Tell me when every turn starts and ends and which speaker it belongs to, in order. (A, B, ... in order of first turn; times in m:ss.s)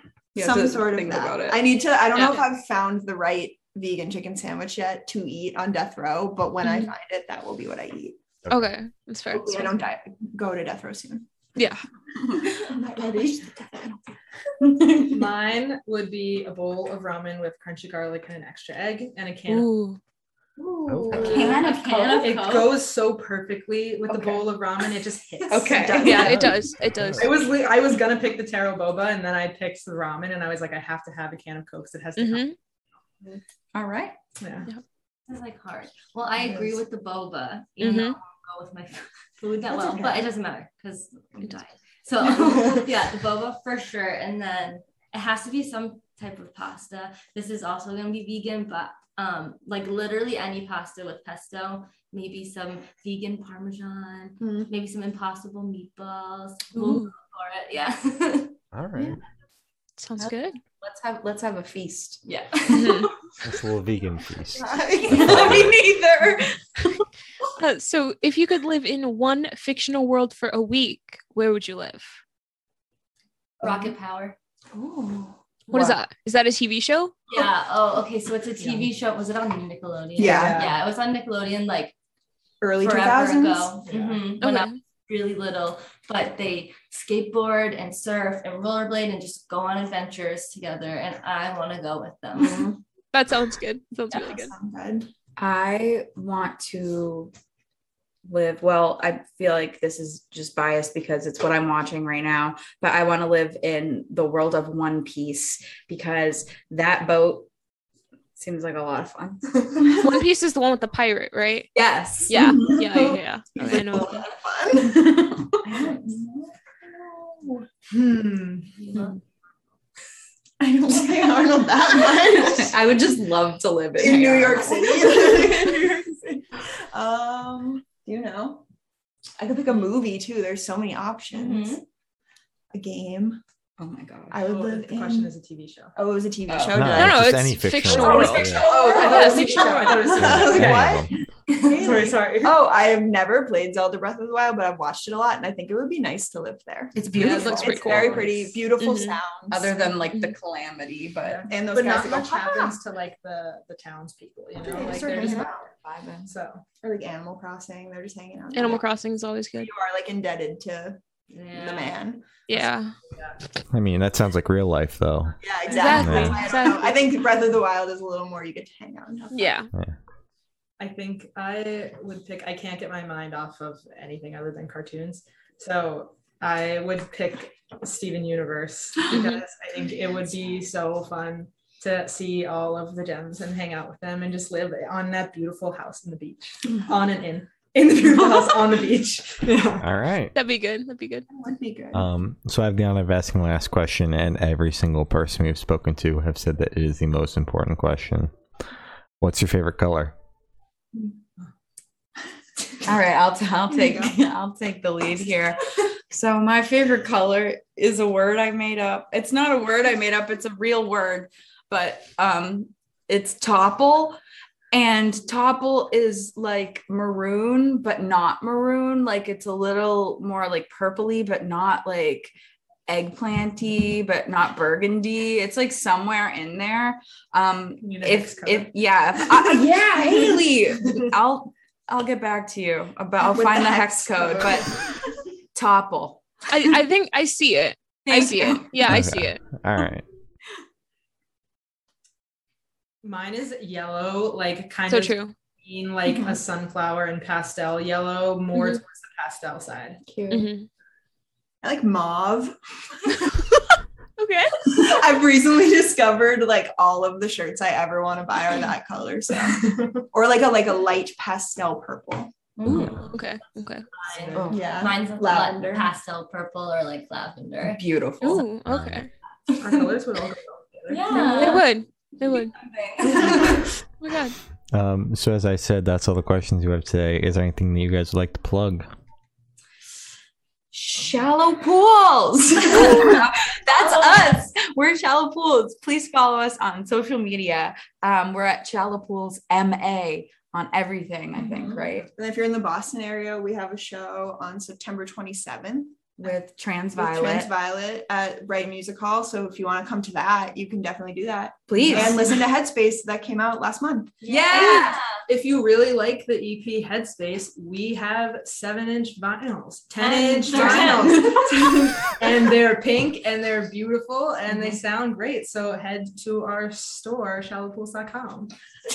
0:00.4-0:01.6 A
0:00.4-0:08.2 B
0:02.1-0:02.5 C
0:08.5-0:09.8 C
0:09.3-0:11.3 B
0:11.6-0:11.8 C
0:12.3-0:14.0 B
0:14.6-0:15.3 A
0:15.0-0:19.7 D
0:19.5-0:20.0 C
0:20.6-0:21.4 B
0:20.9-0:21.4 E
0:21.1-0:22.6 A
0:21.1-0:22.8 F
0:21.1-0:26.1 D
0:24.1-0:24.4 A
0:25.5-0:26.5 A
0:25.5-0:26.6 B
0:26.0-0:27.4 C
0:26.2-0:27.3 E
0:27.2-0:32.5 D
0:32.2-0:32.6 C
0:33.3-0:34.2 A
0:34.4-0:34.7 D
0:35.3-0:58.6 F
0:36.4-0:36.8 B
0:37.8-0:38.2 C
0:39.7-0:40.3 B
0:54.4-0:54.7 B
0:56.8-0:57.1 C
0:58.7-0:59.2 E
1:00.0-1:00.6 C
1:00.2-1:02.2 A
1:02.3-1:03.1 F
1:02.7-1:03.1 C
1:03.4-1:05.8 E
1:04.5-1:05.7 B
1:05.0-1:07.0 A
1:07.6-1:12.2 C
1:13.6-1:14.0 B
1:13.6-1:14.4 F
1:15.1-1:16.0 F
1:15.7-1:17.2 C
1:17.3-1:21.9 F
1:18.6-1:18.9 D
1:20.2-1:20.7 B
1:20.2-1:20.8 D
1:22.6-1:23.8 B
1:22.8-1:32.7 F
1:23.9-1:24.3 D
1:24.4-1:24.8 C
1:32.4-1:32.8 B
1:33.1-1:34.5 C
1:34.1-1:35.1 B
1:35.4-1:37.3 A
1:38.2-1:47.5 A
1:48.4-1:50.1 A
1:50.0-1:51.7 C
1:51.7-1:53.2 A
1:52.3-1:54.3 C
1:52.9-1:55.0 B
1:54.8-1:55.7 A
1:55.7-1:57.6 B
1:57.9-1:58.7 D
1:58.7-1:59.2 F
2:00.6-2:02.8 B
2:02.1-2:05.9 A
2:04.0-2:08.6 B
2:09.4-2:11.8 B
2:11.3-2:11.8 F
2:12.7-2:13.4 B
2:13.8-2:14.4 A
2:14.3-2:15.3 B
2:14.4-2:15.9 D
2:16.0-2:17.4 B
2:16.5-2:17.0 A
2:16.7-2:18.7 E
2:16.9-2:19.7 C
2:17.9-2:19.5 A
2:18.1-2:29.8 B
2:18.6-2:21.0 D
2:20.2-2:21.1 E
2:21.5-2:21.9 F
2:21.7-2:22.6 D
2:27.0-2:28.4 A
2:27.1-2:29.2 C
2:27.2-2:28.4 D
2:29.5-2:31.6 A
2:31.2-2:35.5 D
2:31.5-2:32.8 B
2:34.7-2:35.7 B
2:34.7-2:36.3 A
2:35.1-2:35.4 F
2:36.3-2:36.6 D
2:36.8-2:38.9 B
2:38.5-2:39.7 C
2:39.6-2:41.0 B
2:41.3-2:42.0 F
2:41.5-2:42.2 B
2:42.5-2:42.9 C
2:43.1-2:43.4 D
2:43.7-2:45.4 E
2:45.3-2:46.8 D
2:45.4-2:49.4 B
2:45.7-2:46.8 C
2:46.0-2:46.4 E
2:49.3-2:49.7 C
2:50.8-3:09.9 D
2:59.1-2:59.4 C
3:09.8-3:10.3 E
3:10.3-3:11.3 C
3:11.3-3:12.1 B
3:11.9-3:18.3 E
3:19.2-3:20.1 E
3:22.8-3:34.2 A
3:23.8-3:24.1 B
3:34.7-3:42.3 A
3:42.9-3:54.9 A
3:47.8-3:48.7 D
3:53.3-3:54.8 B
3:55.6-3:56.7 A
3:56.5-3:59.4 C
3:58.1-3:59.0 A
3:58.9-4:00.0 E
4:03.0-4:10.0 D
4:04.9-4:05.3 C
4:10.1-4:10.5 A
4:10.3-4:10.7 C
4:11.6-4:13.5 B
4:14.2-4:14.6 C
4:14.6-4:22.3 B
4:22.6-4:23.2 F
4:22.7-4:23.0 A
4:22.7-4:23.0 E
4:22.9-4:23.9 C
4:24.0-4:27.8 F
4:24.1-4:24.6 D
4:24.4-4:24.8 A
4:24.5-4:25.9 B
4:27.6-4:28.5 A
4:28.2-4:29.1 C
4:28.7-4:29.1 E
4:29.6-4:31.5 D
4:30.9-4:31.7 F
4:31.1-4:32.6 C
4:32.6-4:33.6 A
4:33.0-4:33.6 F
4:33.3-4:34.4 C
4:34.7-4:38.9 E
4:40.7-4:52.1 A
4:43.8-4:44.4 F
4:52.0-4:56.1 B
4:56.2-4:57.5 A
4:57.0-5:04.2 B
5:01.7-5:02.3 A
5:01.9-5:02.1 D
5:04.2-5:05.2 A
5:04.2-5:05.2 F
5:04.6-5:11.5 D
5:10.0-5:11.6 F
5:10.6-5:12.1 A
5:10.9-5:12.1 B
5:12.1-5:18.5 D